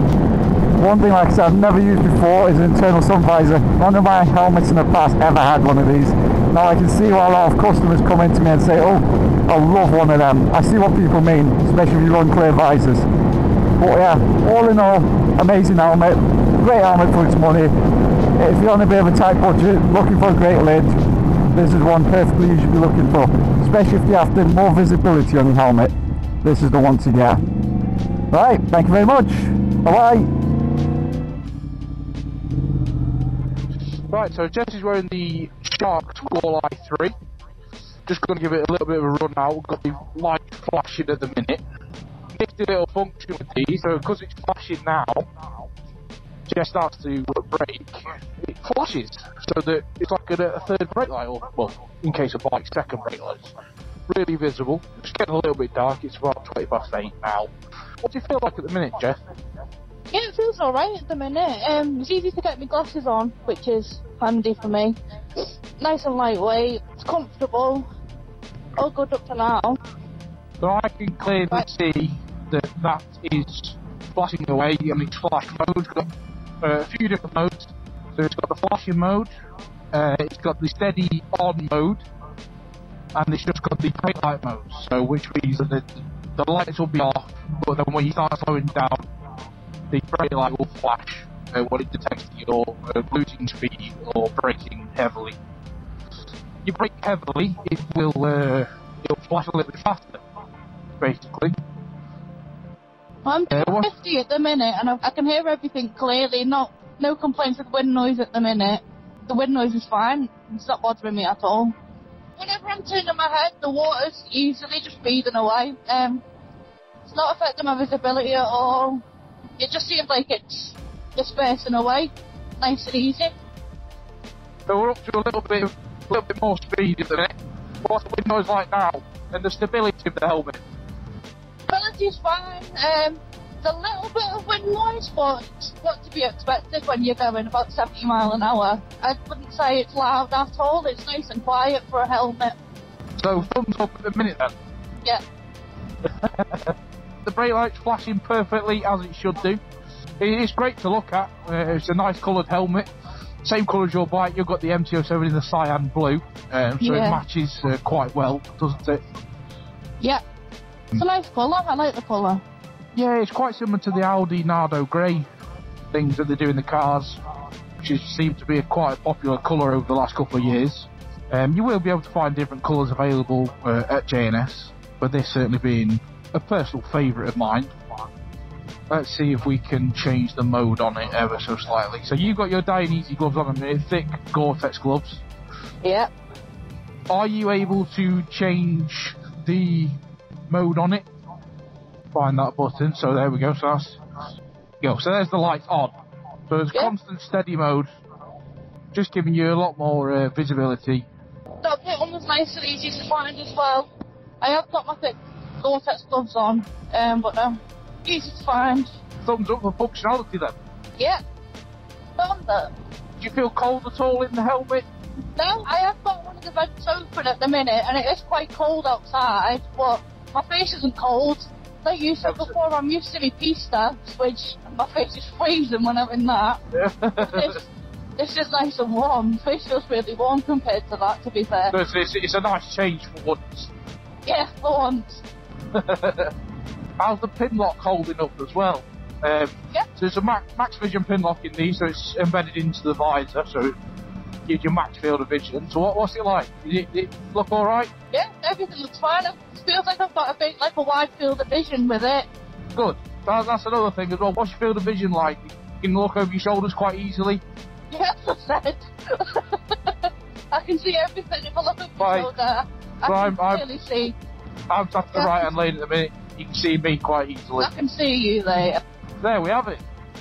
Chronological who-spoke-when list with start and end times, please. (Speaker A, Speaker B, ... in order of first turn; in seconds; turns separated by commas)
Speaker A: 0.7-13.1, Speaker A: 13.8-17.7, Speaker A: 18.4-27.4, Speaker A: 28.3-30.3, Speaker B: 34.1-37.1, Speaker B: 38.0-41.6, Speaker B: 42.3-45.2, Speaker B: 46.5-53.5, Speaker B: 54.1-57.5, Speaker B: 58.0-59.2, Speaker C: 60.1-67.9, Speaker C: 68.8-69.8, Speaker B: 70.6-76.1, Speaker B: 76.6-79.3, Speaker B: 79.9-82.0, Speaker B: 83.1-89.0, Speaker B: 89.9-95.4, Speaker B: 96.6-100.2, Speaker B: 101.0-101.6, Speaker C: 103.2-111.7, Speaker B: 103.5-103.9, Speaker C: 112.4-116.2, Speaker C: 117.0-119.0, Speaker C: 119.6-123.3, Speaker B: 124.7-127.3, Speaker B: 127.8-130.6, Speaker C: 131.7-142.6, Speaker B: 143.2-144.5, Speaker B: 146.3-149.6, Speaker B: 150.2-152.9, Speaker B: 153.4-159.0, Speaker C: 156.8-157.2, Speaker C: 160.9-162.4, Speaker B: 162.9-165.2, Speaker B: 165.9-167.2, Speaker B: 167.8-177.7, Speaker B: 178.9-185.2, Speaker C: 185.8-186.1, Speaker B: 187.1-191.0, Speaker B: 192.1-194.0, Speaker B: 194.8-195.9, Speaker B: 196.5-197.9, Speaker B: 198.9-201.1, Speaker C: 201.6-203.9, Speaker C: 204.4-208.9, Speaker B: 209.2-210.6, Speaker C: 212.2-212.7, Speaker B: 213.2-214.8, Speaker C: 215.3-226.6, Speaker B: 222.2-222.5, Speaker B: 226.7-227.5, Speaker C: 227.1-227.7, Speaker C: 228.2-231.8, Speaker B: 231.7-233.7, Speaker C: 234.2-235.2, Speaker B: 235.7-236.3, Speaker B: 237.0-243.8, Speaker B: 244.4-247.9, Speaker C: 248.1-252.3, Speaker B: 252.7-257.4, Speaker C: 257.9-264.1, Speaker B: 262.0-262.3, Speaker B: 263.1-263.6, Speaker B: 264.7-267.7, Speaker C: 265.1-265.5, Speaker C: 267.6-268.8, Speaker B: 269.2-269.8